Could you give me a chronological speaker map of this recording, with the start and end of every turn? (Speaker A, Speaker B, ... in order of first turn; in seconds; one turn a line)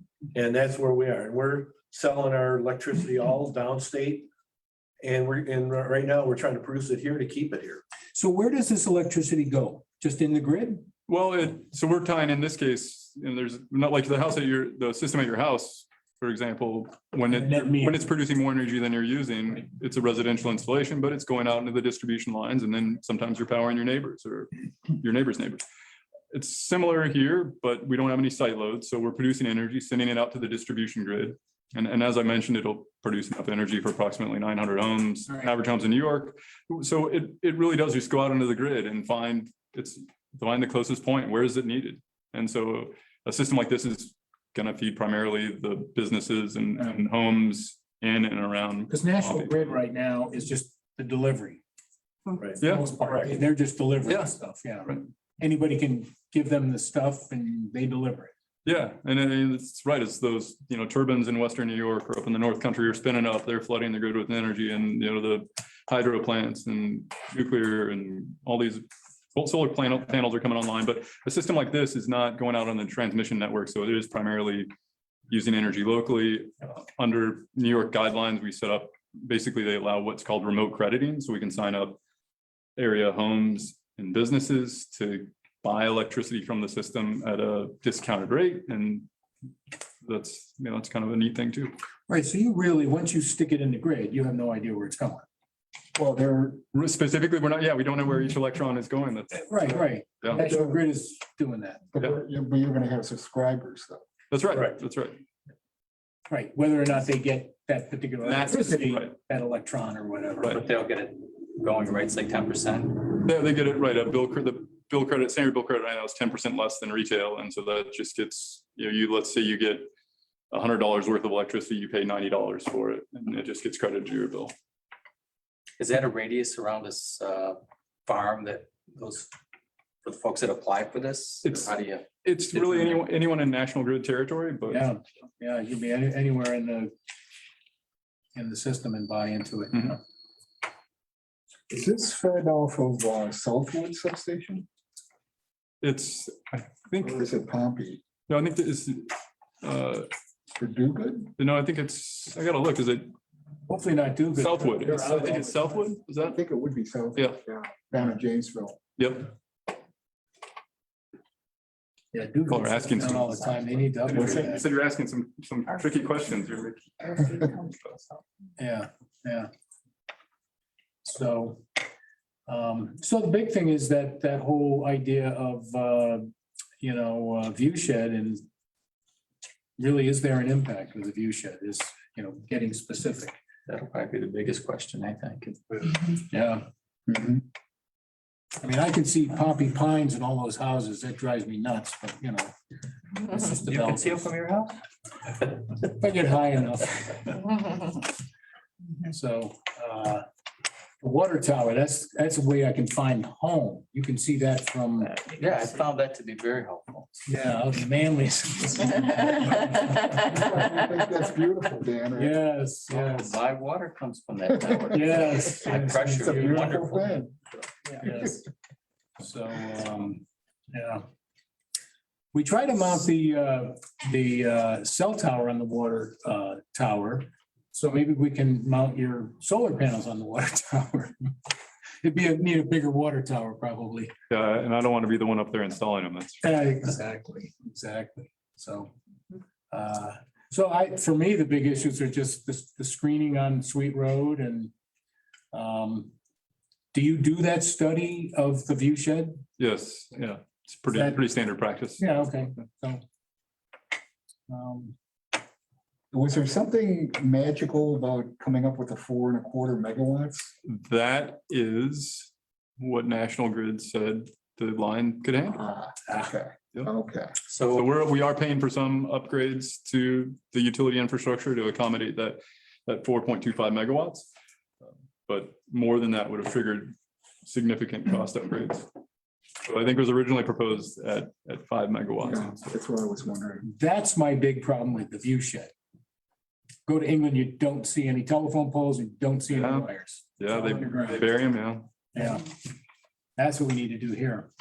Speaker A: 0.3-4.3
Speaker A: 5.0-7.8
Speaker B: 8.1-10.9
Speaker C: 11.1-25.6
Speaker B: 17.3-18.0
Speaker C: 26.3-49.8
Speaker B: 35.3-35.5
Speaker B: 48.9-51.6
Speaker C: 52.6-53.0
Speaker B: 52.6-58.3
Speaker C: 54.0-54.3
Speaker C: 58.6-74.7
Speaker C: 75.3-82.0
Speaker C: 82.8-89.1
Speaker C: 90.0-91.7
Speaker B: 92.1-95.2
Speaker D: 95.9-96.6
Speaker C: 96.7-100.5
Speaker B: 99.3-101.8
Speaker D: 100.3-100.8
Speaker D: 101.9-104.0
Speaker C: 104.3-105.2
Speaker B: 106.3-110.6
Speaker C: 108.2-109.1
Speaker E: 110.5-113.2
Speaker C: 113.2-119.9
Speaker C: 120.5-124.5
Speaker E: 125.8-129.3
Speaker E: 130.0-133.0
Speaker C: 131.4-131.7
Speaker C: 132.2-134.8
Speaker B: 134.7-136.9
Speaker B: 138.3-140.0
Speaker D: 141.7-144.7
Speaker C: 145.8-147.3
Speaker D: 147.0-148.0
Speaker C: 148.3-150.1
Speaker D: 150.6-151.3
Speaker C: 151.4-153.1
Speaker B: 153.7-155.9
Speaker C: 154.4-156.4
Speaker D: 156.3-158.8
Speaker C: 159.0-159.3
Speaker B: 162.1-164.7
Speaker C: 162.5-163.5
Speaker C: 164.1-168.0
Speaker B: 168.6-169.5
Speaker B: 171.0-171.6
Speaker B: 172.5-176.3
Speaker B: 176.8-178.4
Speaker B: 179.8-183.3
Speaker E: 183.7-186.1
Speaker B: 186.1-186.6
Speaker D: 187.1-187.4
Speaker B: 188.6-192.5
Speaker B: 193.2-194.3
Speaker E: 193.3-194.8
Speaker B: 195.7-197.5
Speaker B: 199.0-200.2
Speaker B: 201.0-205.3
Speaker E: 205.3-207.1
Speaker B: 207.3-210.3
Speaker D: 210.1-212.4
Speaker B: 212.1-213.4
Speaker E: 212.9-217.2
Speaker B: 214.9-216.7
Speaker D: 215.7-217.5
Speaker B: 217.9-218.4
Speaker B: 219.2-221.1
Speaker B: 222.3-231.3
Speaker B: 232.0-234.1
Speaker C: 234.3-236.4
Speaker B: 236.4-238.9
Speaker B: 239.7-244.7
Speaker B: 245.5-246.1
Speaker B: 246.9-249.4
Speaker C: 249.6-252.3
Speaker B: 250.9-251.3
Speaker B: 252.0-253.0
Speaker B: 254.5-254.9
Speaker D: 254.5-254.9
Speaker D: 256.1-260.5
Speaker C: 260.6-265.6
Speaker D: 265.5-267.4
Speaker E: 267.5-267.9
Speaker C: 267.7-274.3
Speaker C: 275.3-278.9
Speaker C: 279.6-282.7
Speaker D: 282.2-283.7
Speaker B: 283.6-285.7
Speaker B: 286.9-291.3
Speaker C: 289.5-291.9
Speaker B: 292.1-292.5
Speaker B: 293.4-294.5